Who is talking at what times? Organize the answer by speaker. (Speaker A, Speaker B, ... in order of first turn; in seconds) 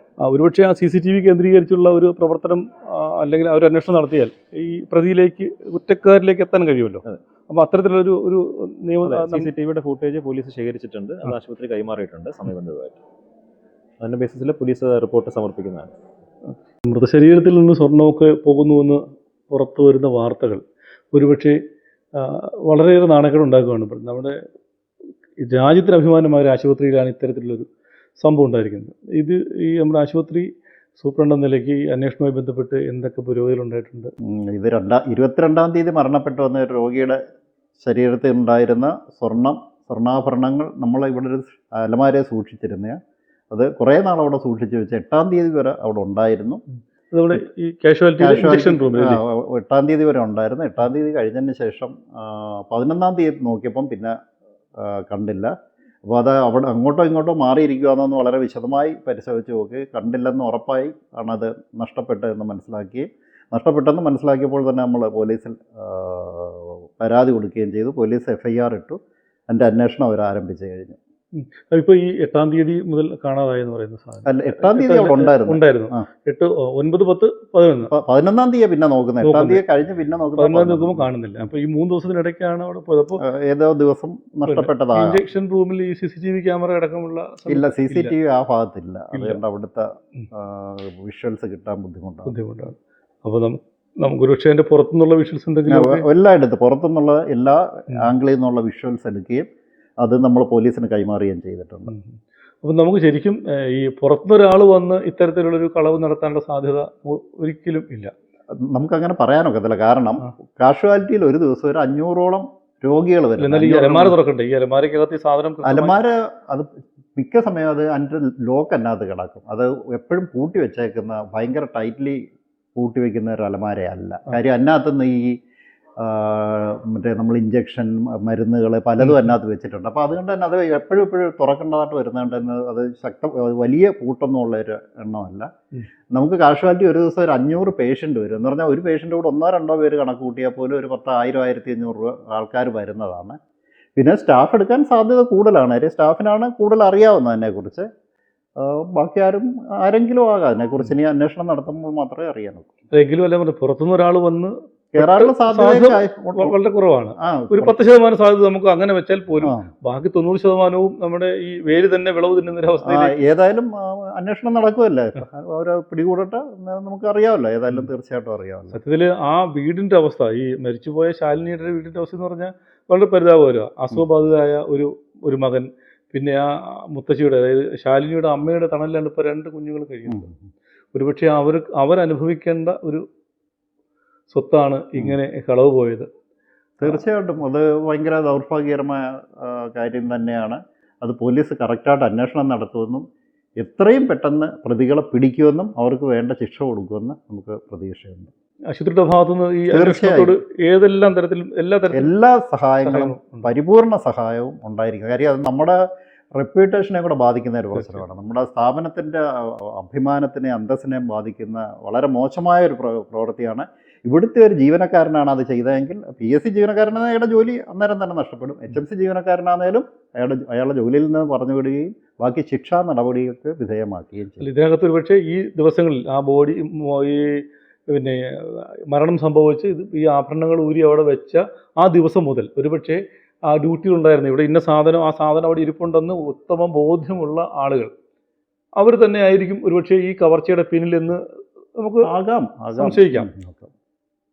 Speaker A: 0.2-9.5, 16.8-21.6, 22.1-24.4, 25.4-27.7, 28.2-34.1, 47.1-49.2, 71.3-77.9, 79.2-79.6, 80.4-83.2, 84.5-88.1, 89.1-89.4, 92.3-96.0, 101.9-108.1, 113.4-115.9, 129.0-129.3, 152.9-163.1, 168.7-180.2, 180.9-183.0, 184.3-186.1, 198.7-202.1, 202.8-203.5, 207.7-208.0, 224.4-237.9, 238.8-241.2, 241.8-242.1, 242.8-243.3
Speaker B: 9.0-13.0, 14.0-15.9
Speaker C: 34.2-37.2, 37.8-43.0, 43.5-46.6, 48.2-54.1, 54.8-55.5, 56.1-71.0, 74.2-76.0, 77.9-81.1, 83.2-85.2, 87.5-92.3, 95.7-99.5, 100.0-101.9, 108.5-114.1, 115.6-122.2, 122.8-125.4, 126.0-135.5, 136.1-143.4, 144.0-147.9, 148.6-152.7, 154.9-156.5, 157.2-157.8, 162.8-168.8, 180.1-180.4, 186.8-193.1, 193.6-198.3, 199.7-200.4, 201.9-205.8, 206.3-224.4, 242.0-243.7